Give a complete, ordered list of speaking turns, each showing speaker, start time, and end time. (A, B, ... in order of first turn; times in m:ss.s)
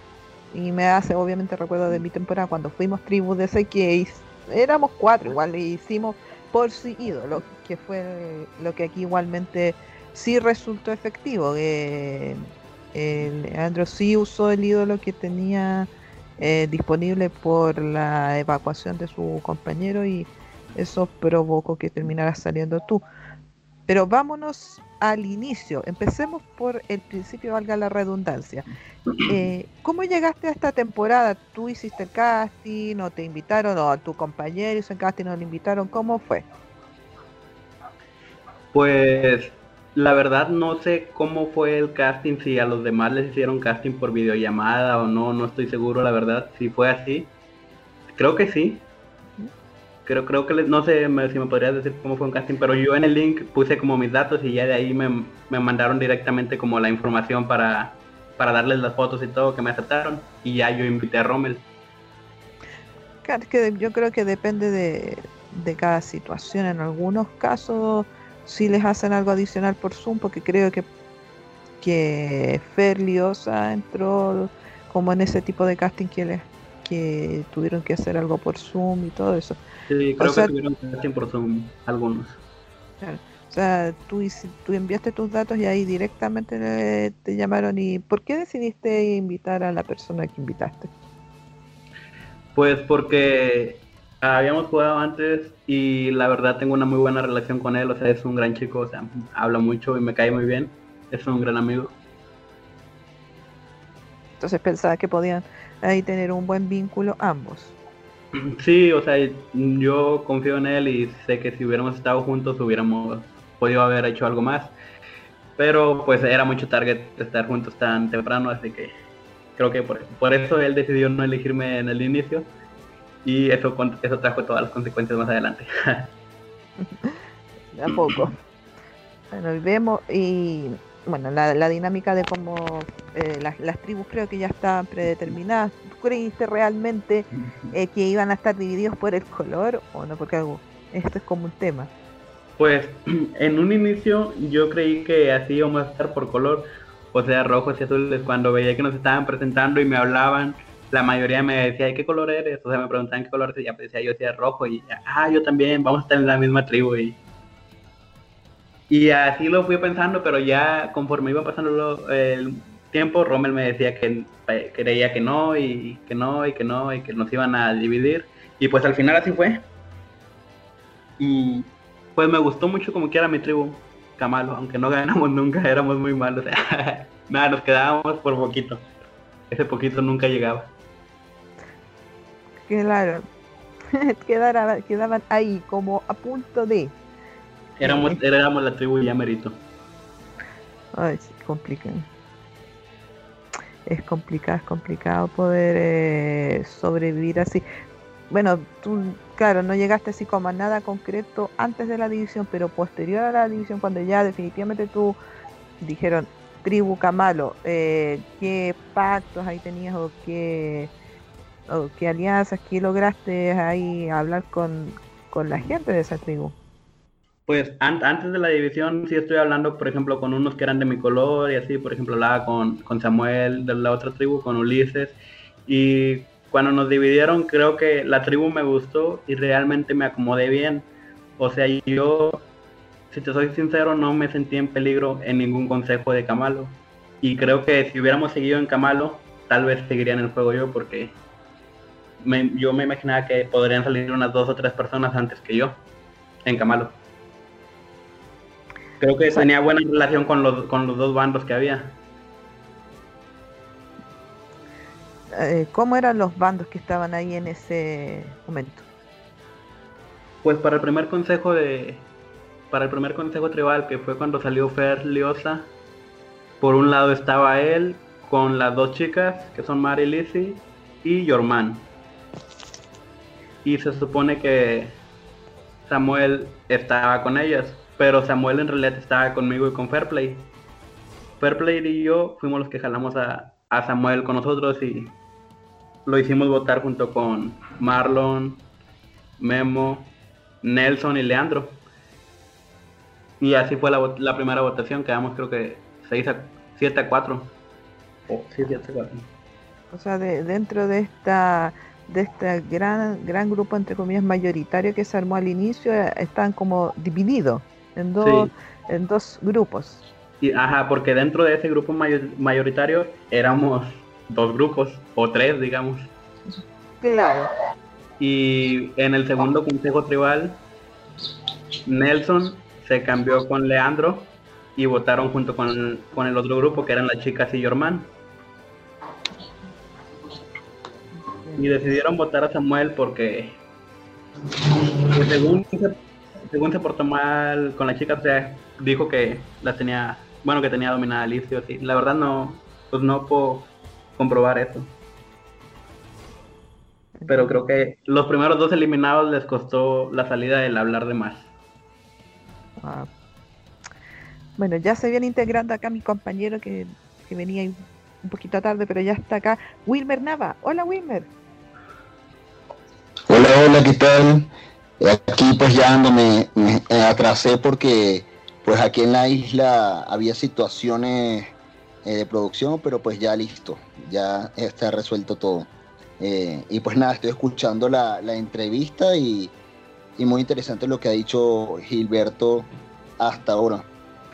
0:00.5-0:12.4 A
0:12.9-0:23.0 A
0:23.9-0:28.7 A
0:29.2-0:36.5 A
0:38.7-0:47.3 B
0:48.2-0:48.8 B
0:50.1-1:01.6 B
1:03.2-1:10.9 A
1:11.8-1:19.6 A
1:19.9-1:22.4 B
1:20.2-1:20.5 A
1:23.0-1:30.9 A
1:32.6-1:42.0 B
1:44.4-1:47.8 A
1:48.3-1:54.7 B
1:55.6-1:58.9 B
1:59.6-2:02.5 B
2:03.2-2:06.1 B
2:06.8-2:07.2 A
2:07.7-2:08.4 A
2:09.3-2:21.9 A
2:22.6-2:37.2 B
2:38.9-2:49.6 B
2:51.2-2:58.9 B
2:59.5-3:00.7 B
3:02.6-3:03.2 A
3:03.9-3:07.0 A
3:07.8-3:09.6 B
3:07.8-3:08.2 A
3:11.0-3:12.1 A
3:13.9-3:17.6 A
3:18.3-3:25.2 A
3:25.8-3:30.9 A
3:31.7-3:36.6 A
3:37.5-3:50.9 B
3:51.4-3:52.5 B
3:53.1-4:01.2 B
4:02.2-4:05.8 B
4:06.4-4:07.0 B
4:09.0-4:12.0 B
4:15.3-4:18.9 A
4:20.4-4:22.1 B
4:22.7-4:25.7 B
4:26.6-4:31.9 B
4:33.6-4:35.0 B
4:35.9-4:40.5 B
4:41.4-4:45.2 B
4:46.1-4:48.7 B
4:49.4-4:51.8 B
4:53.4-4:57.5 B
4:58.3-4:59.3 B
4:59.9-5:10.0 A
5:08.2-5:08.5 B
5:10.4-5:16.1 B
5:17.0-5:17.5 A
5:18.2-5:20.6 B
5:21.9-5:28.1 B
5:31.2-5:31.8 A
5:31.6-5:33.6 B
5:35.1-5:44.9 B
5:47.2-5:47.6 A
5:47.3-5:51.5 B
5:52.8-5:53.1 A
5:54.6-6:01.3 A
6:03.3-6:19.5 C
6:20.2-6:22.7 C
6:23.2-6:23.9 C